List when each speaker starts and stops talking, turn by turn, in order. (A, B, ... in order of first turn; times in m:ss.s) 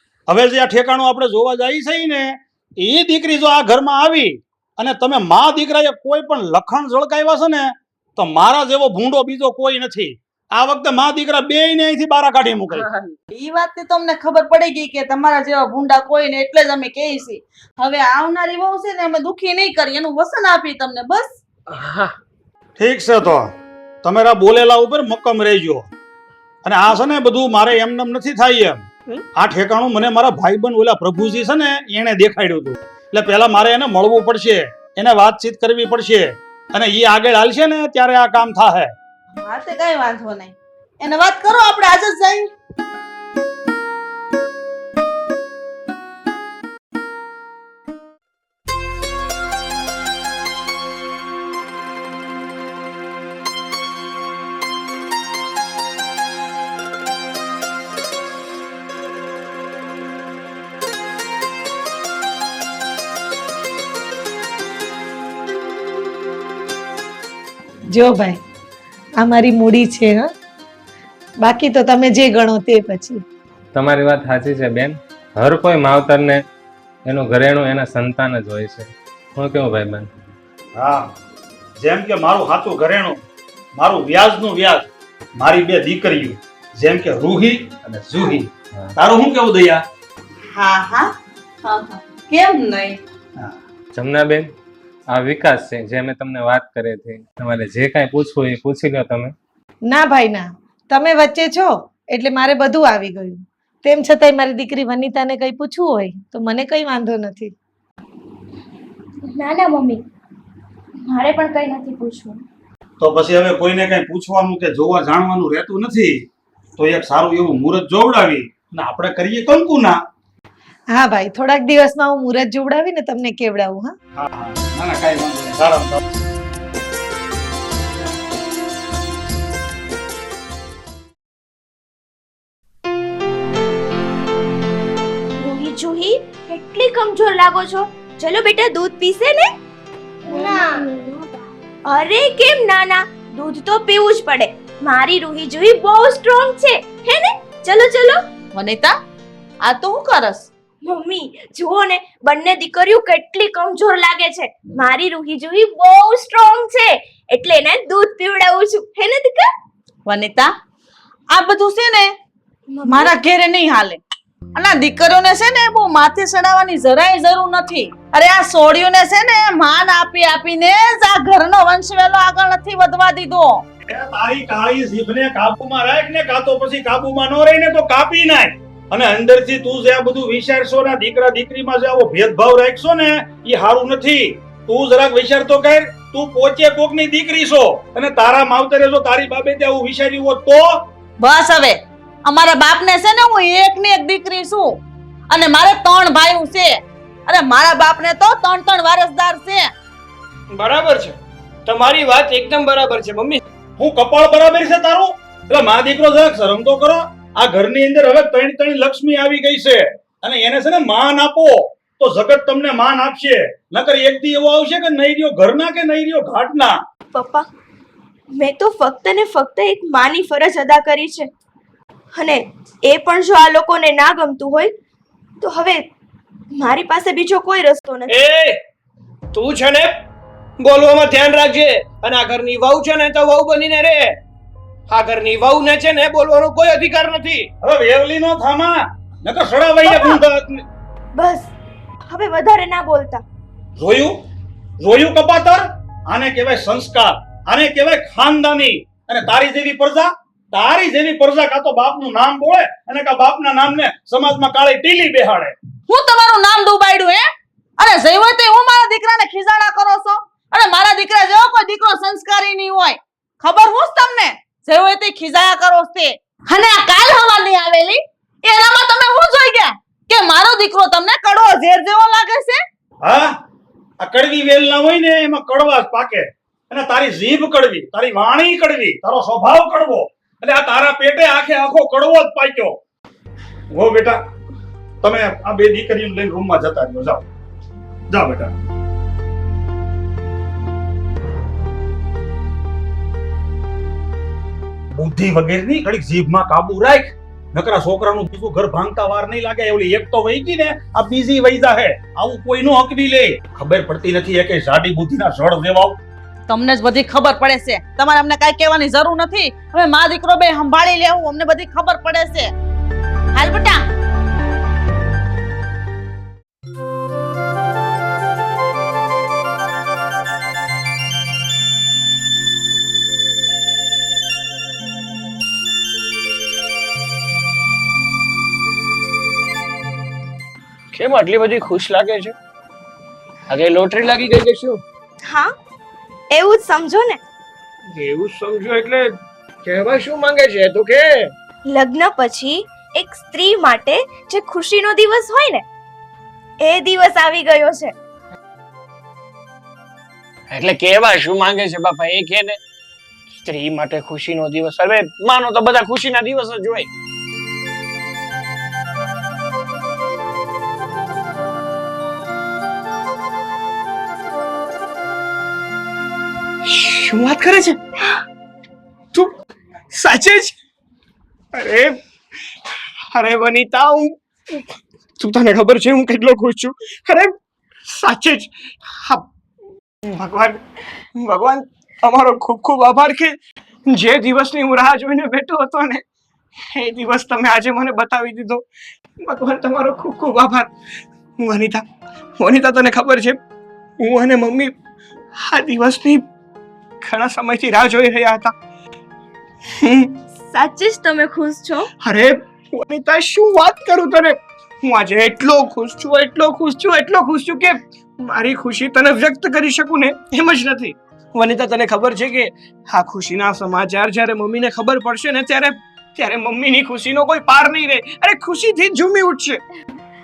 0:00.3-0:12.9 A
0:12.8-0:13.1 B
0:13.3-0:21.4 C
0:21.7-0:22.1 B
0:22.8-0:23.5 A
0:24.0-0:25.9 A
0:26.6-0:28.8 A
0:29.3-0:38.9 A
0:39.3-0:42.5 C
1:07.9-1:08.4 D
1:09.2-1:10.3 D
1:11.4-1:13.2 D
1:13.7-1:16.4 E
1:17.0-1:20.1 E
1:20.7-1:21.1 A
1:21.8-1:23.2 A
1:23.7-1:29.8 A
1:30.5-1:31.1 C
1:31.6-1:33.0 C
1:33.9-1:34.5 E
1:35.1-1:39.3 E
1:39.8-1:47.5 D
1:49.3-1:50.0 F
1:51.0-1:52.4 F
1:53.0-1:56.2 A
1:56.8-2:00.0 A
2:00.9-2:03.9 D
2:04.1-2:06.0 A
2:15.4-2:19.5 F
2:20.3-2:21.1 F
2:21.8-2:28.2 F
2:28.5-2:28.9 C
2:29.6-2:30.5 C
2:30.8-2:39.5 F
2:40.0-2:40.5 C
2:41.3-2:42.1 C
2:42.7-2:43.2 F
2:42.8-2:44.0 C
2:44.6-2:53.6 C
2:53.9-3:10.8 A
3:11.2-3:14.8 C
3:15.3-3:19.7 C
3:20.5-3:23.4 B
3:23.8-3:36.8 A
3:37.1-3:37.4 F
3:38.3-3:41.3 F
3:42.1-3:44.7 F
3:45.4-3:45.9 F
3:46.5-3:48.1 F
3:48.1-3:48.6 B
3:49.3-3:50.0 B
3:50.6-3:54.2 B
3:54.9-3:57.5 B
3:57.6-4:00.6 A
3:59.8-4:00.2 F
4:01.2-4:01.5 F
4:02.1-4:03.2 F
4:03.8-4:04.1 A
4:04.8-4:15.6 A
4:15.9-4:17.2 C
4:17.8-4:32.6 C
4:33.0-4:33.3 A
4:34.0-4:42.8 A
4:43.7-4:44.2 A
4:45.0-4:47.2 A
4:48.1-4:48.5 A
4:54.9-5:06.0 A
5:06.5-5:12.5 C
5:13.3-5:13.8 C
5:30.9-5:32.3 B
5:33.5-5:34.8 B
5:35.2-5:35.5 F
5:36.3-5:37.2 F
5:37.9-5:39.1 B
5:39.6-5:41.3 B
5:41.7-5:45.6 F
5:46.6-5:47.9 F
5:50.5-5:52.6 B
5:53.4-5:56.9 B
6:06.6-6:07.8 B
6:09.9-6:10.5 B
6:11.5-6:12.0 B
6:13.1-6:14.7 B
6:15.2-6:17.3 B
6:17.8-6:19.3 B
6:20.0-6:20.6 B
6:21.1-6:26.0 B
6:26.7-6:28.6 B
6:29.2-6:30.7 B
6:31.4-6:31.8 B
6:32.4-6:33.4 B
6:34.0-6:34.7 B
6:35.4-6:36.2 B
6:37.0-6:38.5 B
6:39.8-6:40.2 B
6:40.3-6:41.9 F
6:42.0-6:59.6 B